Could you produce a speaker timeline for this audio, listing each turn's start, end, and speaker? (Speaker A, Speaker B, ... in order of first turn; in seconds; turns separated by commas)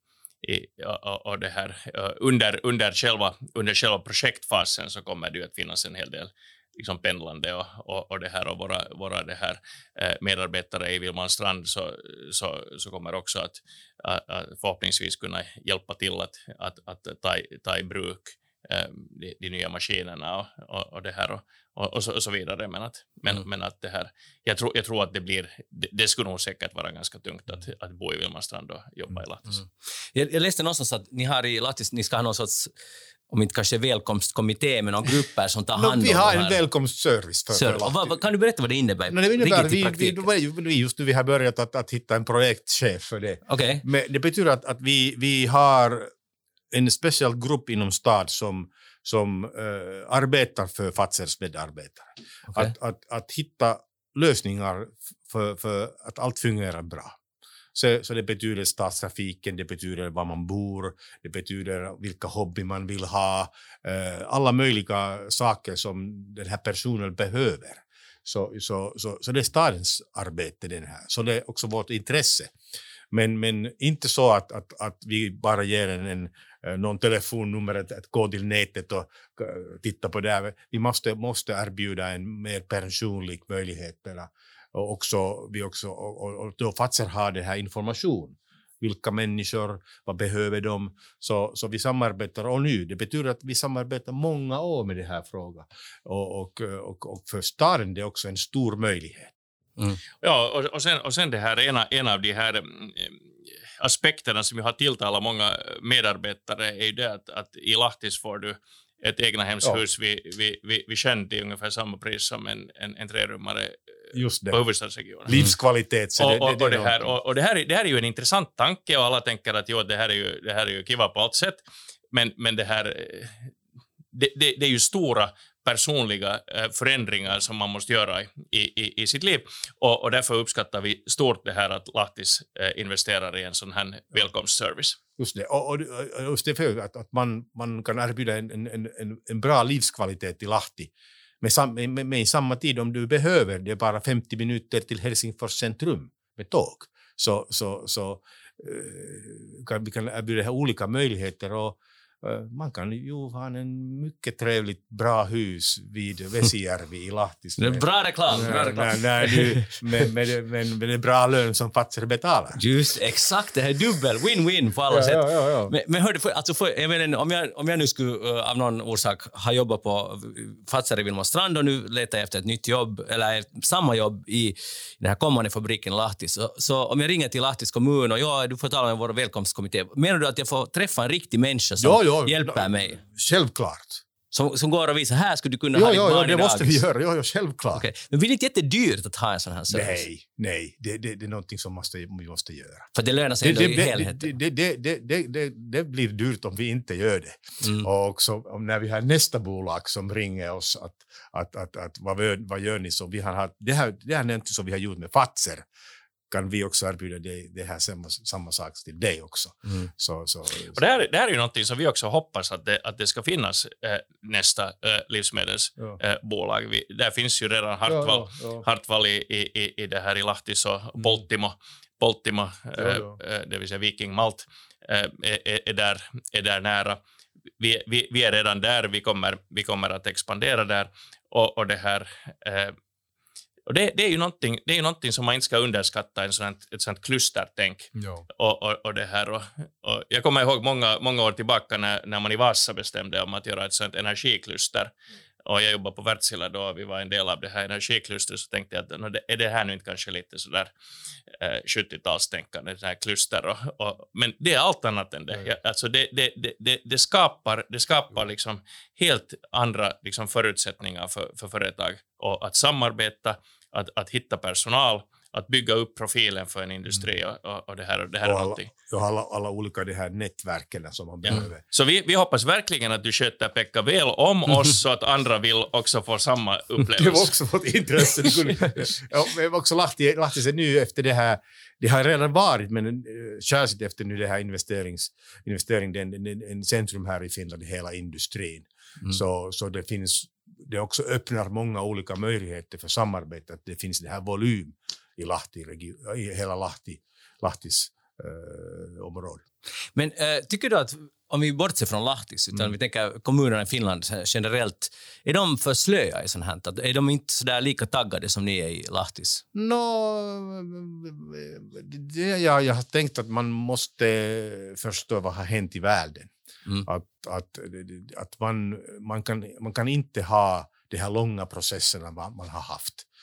Speaker A: 0.4-29.6, Speaker B: 30.1-32.7, Speaker B: 33.3-36.6, Speaker C: 35.8-38.2, Speaker B: 37.5-40.2, Speaker C: 39.1-46.1, Speaker B: 43.5-43.8, Speaker C: 46.7-57.2, Speaker C: 57.7-72.5, Speaker C: 73.1-99.3, Speaker A: 100.2-103.2, Speaker A: 103.8-113.8, Speaker C: 114.1-114.6, Speaker A: 114.5-115.3, Speaker C: 115.2-117.1, Speaker A: 116.2-123.5, Speaker A: 124.1-135.0, Speaker C: 135.2-162.6, Speaker B: 157.6-159.8, Speaker B: 162.6-183.0, Speaker C: 164.9-165.7, Speaker C: 181.8-184.0, Speaker B: 184.3-186.8, Speaker C: 185.7-187.8, Speaker B: 187.7-190.0, Speaker C: 189.7-192.9, Speaker B: 192.9-194.3, Speaker C: 193.4-205.7, Speaker B: 197.6-197.9, Speaker C: 206.3-210.8, Speaker A: 210.7-227.0, Speaker C: 217.8-218.6, Speaker C: 222.8-223.1, Speaker A: 227.6-232.7, Speaker A: 233.7-244.9, Speaker C: 238.0-238.2, Speaker A: 245.4-250.7, Speaker A: 251.4-268.7, Speaker C: 268.2-271.6, Speaker A: 271.3-277.3, Speaker C: 276.9-299.4, Speaker A: 278.1-278.4, Speaker B: 299.9-309.4, Speaker C: 309.5-316.3, Speaker C: 316.8-323.1